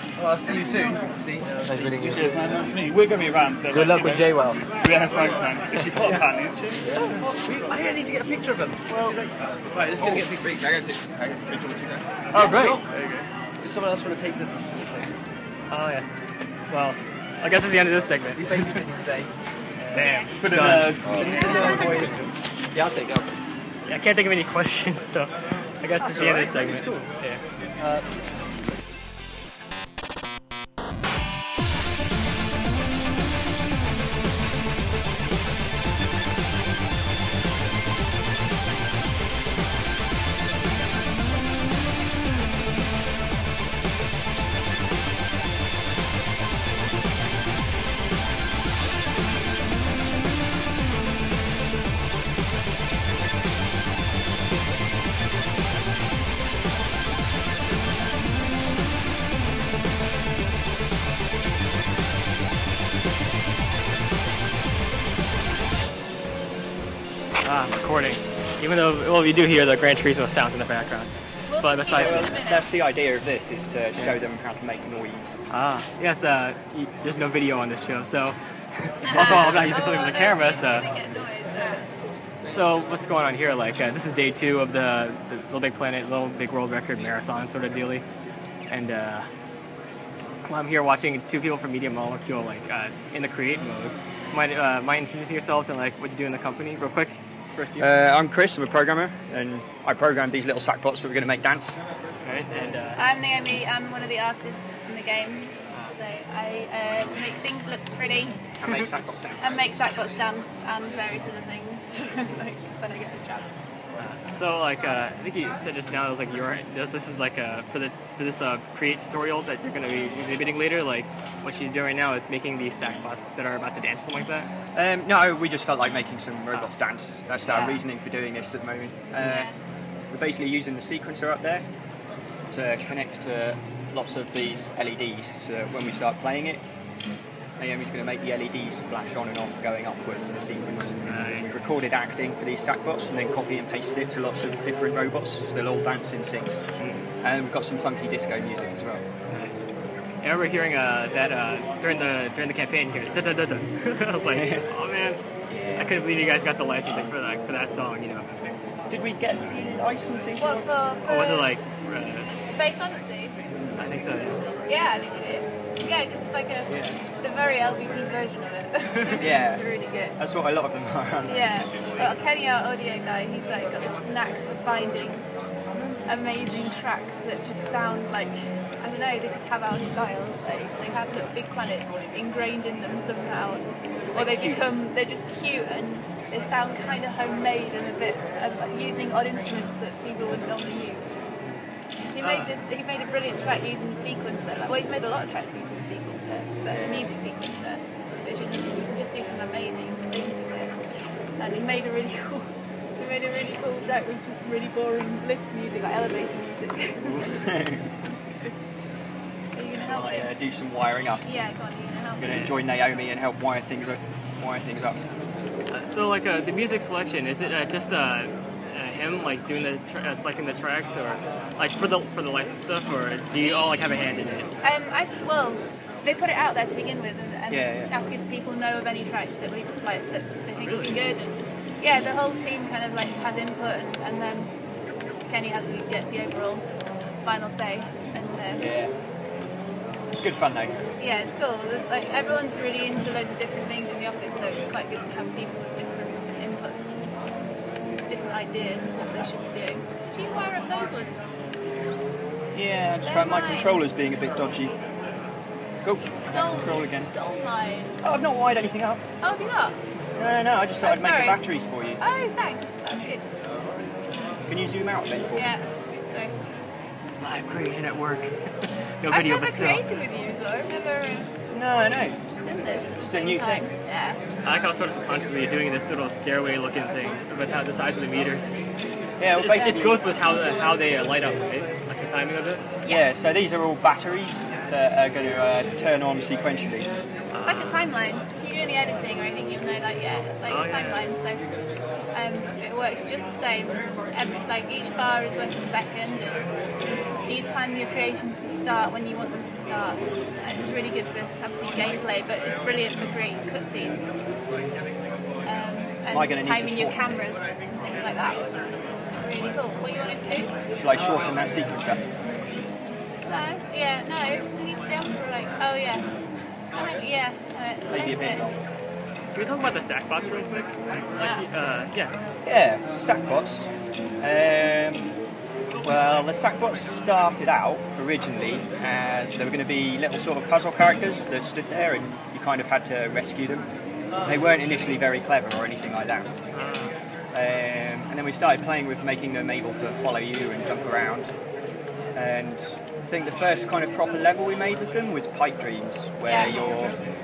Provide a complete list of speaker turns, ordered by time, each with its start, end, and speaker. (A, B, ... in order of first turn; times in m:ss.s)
0:00.2-0:02.0 A
0:01.6-0:03.1 B
0:02.0-0:06.9 C
0:03.7-0:04.7 B
0:07.2-0:10.6 A
0:10.0-0:12.2 D
0:12.3-0:13.3 C
0:12.3-0:12.8 A
0:12.4-0:12.8 E
0:13.6-0:15.1 A
0:15.7-0:16.2 E
0:16.7-0:18.8 E
0:18.4-0:19.3 A
0:19.9-0:20.2 E
0:19.9-0:21.6 C
0:20.0-0:20.3 F
0:20.5-0:22.3 A
0:20.5-0:20.8 B
0:21.0-0:21.4 D
0:21.5-0:21.8 F
0:22.7-0:23.3 B
0:23.9-0:27.4 E
0:26.0-0:27.0 A
0:26.1-0:27.0 B
0:27.8-0:28.0 A
1:07.4-1:12.4 E
1:11.5-1:12.7 F
1:11.9-1:15.4 G
1:15.5-1:18.4 E
1:19.0-1:20.9 E
1:19.0-1:21.9 F
1:22.4-1:28.0 E
1:28.7-1:29.3 E
1:30.4-1:37.9 E
1:37.8-1:41.8 G
1:42.2-1:43.0 E
1:43.0-1:48.4 F
1:48.6-1:49.7 G
1:49.4-1:53.6 F
1:54.0-2:04.5 E
2:04.7-2:09.5 G
2:07.5-2:07.8 E
2:09.2-2:09.6 F
2:10.1-2:11.7 G
2:12.5-2:16.6 G
2:17.6-2:26.6 G
2:21.0-2:21.6 E
2:26.8-2:27.1 E
2:27.2-2:29.0 G
2:29.3-2:29.6 E
2:30.2-2:35.2 E
2:34.2-2:34.7 G
2:35.5-2:36.0 G
2:35.8-2:38.3 E
2:38.9-2:40.7 G
2:40.4-2:41.6 F
2:41.1-2:42.3 E
2:42.3-2:43.4 F
2:43.8-2:44.4 E
2:44.7-2:50.2 F
2:49.2-2:49.6 G
2:50.2-2:52.1 G
2:51.2-2:55.2 F
2:56.1-3:11.2 F
3:04.1-3:04.7 E
3:12.1-3:20.7 F
3:12.2-3:12.5 E
3:16.7-3:17.0 B
3:21.4-3:28.6 F
3:27.0-3:27.9 G
3:29.5-3:30.3 F
3:29.8-3:31.2 G
3:31.2-3:32.6 F
3:32.2-3:35.0 G
3:35.7-3:44.5 E
3:43.4-3:43.9 F
3:44.6-3:54.5 F
3:47.5-3:47.9 G
3:50.6-3:51.0 E
3:55.3-3:56.6 F
3:57.2-3:58.7 F
3:58.6-3:58.9 G
4:00.1-4:00.8 G
4:01.0-4:07.0 F
4:08.1-4:11.2 F
4:12.5-4:14.8 G
4:13.0-4:13.8 F
4:15.8-4:17.1 G
4:15.9-4:18.0 F
4:18.0-4:19.0 G
4:19.2-4:19.8 F
4:20.2-4:22.0 G
4:20.8-4:21.4 F
4:22.0-4:23.3 F
4:24.5-4:25.5 G
4:25.4-4:26.3 F
4:27.1-4:29.8 E
4:29.1-4:31.3 F
4:31.5-4:32.2 G
4:32.4-4:34.2 F
4:33.0-4:33.7 G
4:34.4-4:38.6 E
4:39.2-4:40.0 G
4:39.3-4:42.6 E
4:42.8-4:43.2 F
4:42.9-4:46.9 G
4:47.3-4:47.9 E
4:47.4-4:51.4 F
4:50.5-4:51.1 E
4:52.1-4:56.5 F
4:57.2-5:04.1 F
5:05.4-5:10.5 F
5:06.1-5:07.3 G
5:10.8-5:12.0 G
5:13.3-5:16.0 F
5:16.7-5:18.5 F
5:17.9-5:18.6 G
5:19.3-5:22.1 E
5:21.2-5:21.4 F
5:22.4-5:23.7 G
5:24.2-5:25.1 G
5:25.8-5:33.7 G
5:34.2-5:36.3 G
5:36.5-5:37.0 E
5:37.3-5:41.3 G
5:42.2-5:47.0 G
5:46.3-5:46.7 F